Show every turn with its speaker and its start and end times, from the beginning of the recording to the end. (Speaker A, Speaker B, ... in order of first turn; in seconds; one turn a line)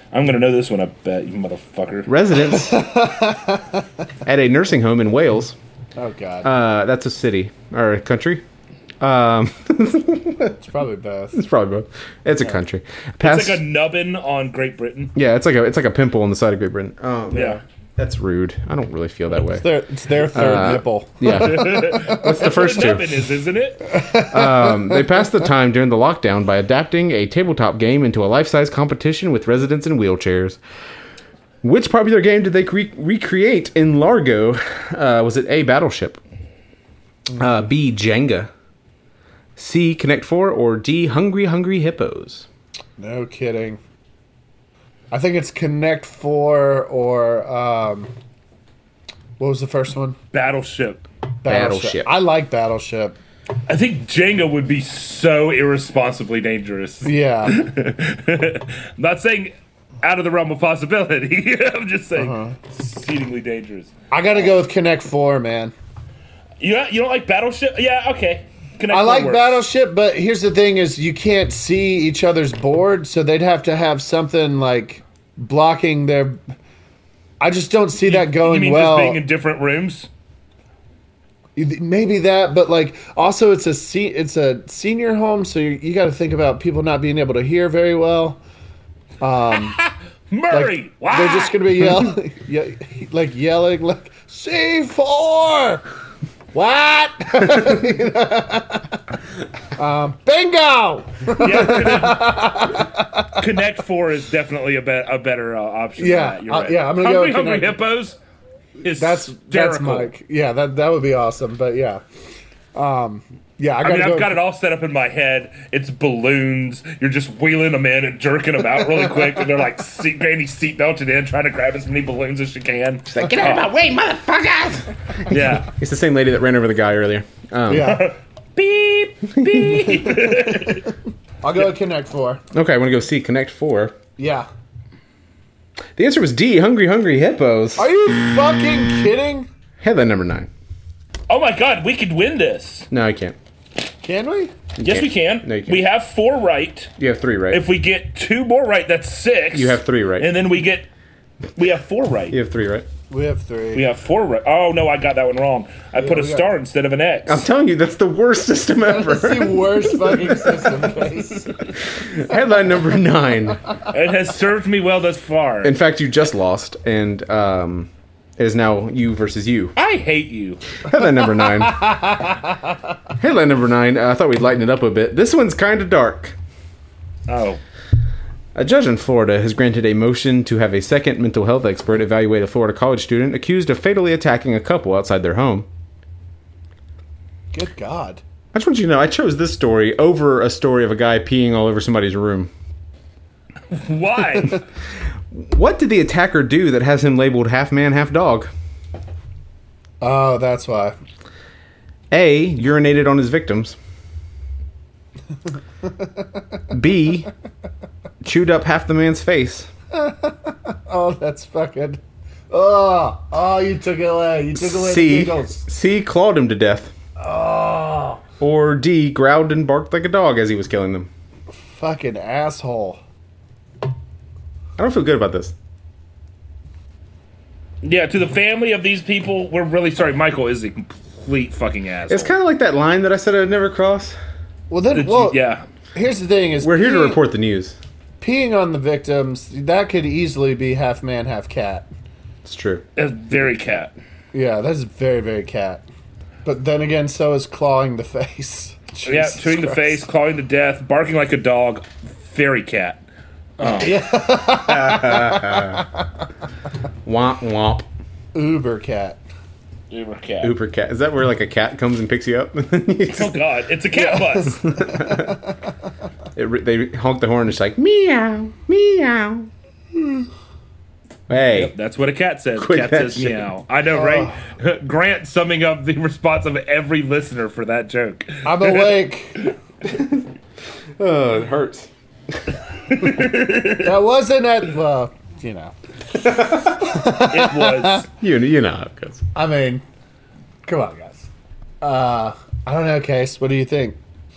Speaker A: 0.1-2.1
Speaker B: 2.1-2.9
Speaker C: 2.5-3.9
Speaker B: 4.2-5.6
Speaker C: 6.0-6.5
Speaker B: 6.4-8.4
Speaker B: 9.0-10.6
Speaker C: 10.6-11.4
Speaker B: 11.3-13.6
Speaker A: 13.2-15.1
Speaker B: 15.2-19.7
Speaker A: 17.3-17.6
Speaker C: 19.5-22.4
Speaker B: 20.3-23.1
Speaker A: 21.3-24.1
Speaker C: 23.9-25.3
Speaker B: 24.1-30.6
Speaker B: 31.6-36.2
Speaker B: 37.4-38.5
Speaker B: 39.6-42.5
Speaker C: 43.0-43.8
Speaker C: 45.1-48.1
Speaker C: 49.4-50.2
Speaker A: 50.3-51.1
Speaker C: 51.4-53.2
Speaker B: 51.5-52.2
Speaker A: 53.7-63.9
Speaker C: 57.0-57.6
Speaker C: 62.2-62.6
Speaker C: 64.1-65.7
Speaker A: 66.6-69.6
Speaker C: 68.9-76.4
Speaker C: 77.4-79.2
Speaker A: 78.0-80.1
Speaker C: 81.6-88.4
Speaker C: 89.2-89.8
Speaker A: 89.7-91.8
Speaker C: 90.5-95.8
Speaker C: 96.5-99.0
Speaker C: 99.8-103.5
Speaker A: 101.4-102.7
Speaker A: 103.3-108.2
Speaker C: 106.0-107.8
Speaker A: 108.8-110.1
Speaker C: 109.0-112.0
Speaker C: 112.8-114.4
Speaker A: 113.8-123.7
Speaker B: 123.1-128.0
Speaker A: 125.3-125.7
Speaker C: 127.7-128.1
Speaker A: 127.7-130.9
Speaker B: 129.4-129.8
Speaker C: 130.1-130.8
Speaker C: 131.4-132.4
Speaker B: 132.5-134.0
Speaker C: 134.2-134.5
Speaker B: 136.0-137.9
Speaker C: 137.8-139.5
Speaker B: 139.8-140.5
Speaker A: 141.3-142.9
Speaker B: 142.9-143.4
Speaker C: 144.0-144.5
Speaker B: 144.8-145.8
Speaker A: 144.8-146.9
Speaker B: 147.0-147.7
Speaker A: 147.5-150.9
Speaker B: 149.5-150.3
Speaker A: 151.6-152.4
Speaker B: 152.3-152.9
Speaker C: 153.1-153.9
Speaker A: 153.7-157.4
Speaker C: 156.0-156.5
Speaker B: 157.3-160.6
Speaker C: 158.9-161.5
Speaker B: 161.9-163.7
Speaker A: 163.9-165.8
Speaker B: 165.6-169.8
Speaker A: 169.8-170.6
Speaker B: 170.8-171.9
Speaker C: 171.2-172.5
Speaker B: 173.2-176.4
Speaker A: 177.3-177.6
Speaker B: 178.6-185.7
Speaker C: 187.5-188.2
Speaker B: 188.5-192.5
Speaker A: 193.7-194.6
Speaker B: 195.3-198.5
Speaker C: 200.0-201.0
Speaker B: 202.1-203.8
Speaker C: 205.8-206.4
Speaker B: 206.7-207.3
Speaker B: 208.2-209.7
Speaker C: 209.9-215.7
Speaker B: 214.6-216.9
Speaker C: 217.2-218.2
Speaker B: 218.4-221.1
Speaker C: 221.7-223.0
Speaker B: 224.8-225.5
Speaker A: 227.8-232.3
Speaker B: 232.1-234.2
Speaker C: 234.7-235.4
Speaker A: 234.9-235.7
Speaker C: 235.9-237.2
Speaker B: 236.6-237.8
Speaker C: 238.2-241.9
Speaker B: 242.4-242.8
Speaker A: 243.0-243.9
Speaker C: 244.3-245.8
Speaker C: 246.4-250.0
Speaker A: 249.1-253.0
Speaker A: 253.6-254.0
Speaker C: 253.6-256.1
Speaker B: 254.5-255.8
Speaker B: 257.1-257.9
Speaker C: 258.4-259.2
Speaker A: 259.9-260.5
Speaker B: 260.4-263.4
Speaker A: 263.1-264.6
Speaker C: 263.9-265.4
Speaker B: 264.6-265.4
Speaker B: 266.4-269.5
Speaker B: 271.3-271.7
Speaker A: 271.5-278.9
Speaker B: 272.6-273.5
Speaker C: 273.9-274.4
Speaker C: 278.4-279.5
Speaker B: 279.9-280.2
Speaker B: 281.0-281.9
Speaker A: 282.9-283.9
Speaker C: 283.8-288.0
Speaker B: 286.3-286.8
Speaker A: 287.2-288.1
Speaker B: 288.2-289.2
Speaker C: 289.4-289.8
Speaker C: 290.6-291.3
Speaker C: 291.8-294.0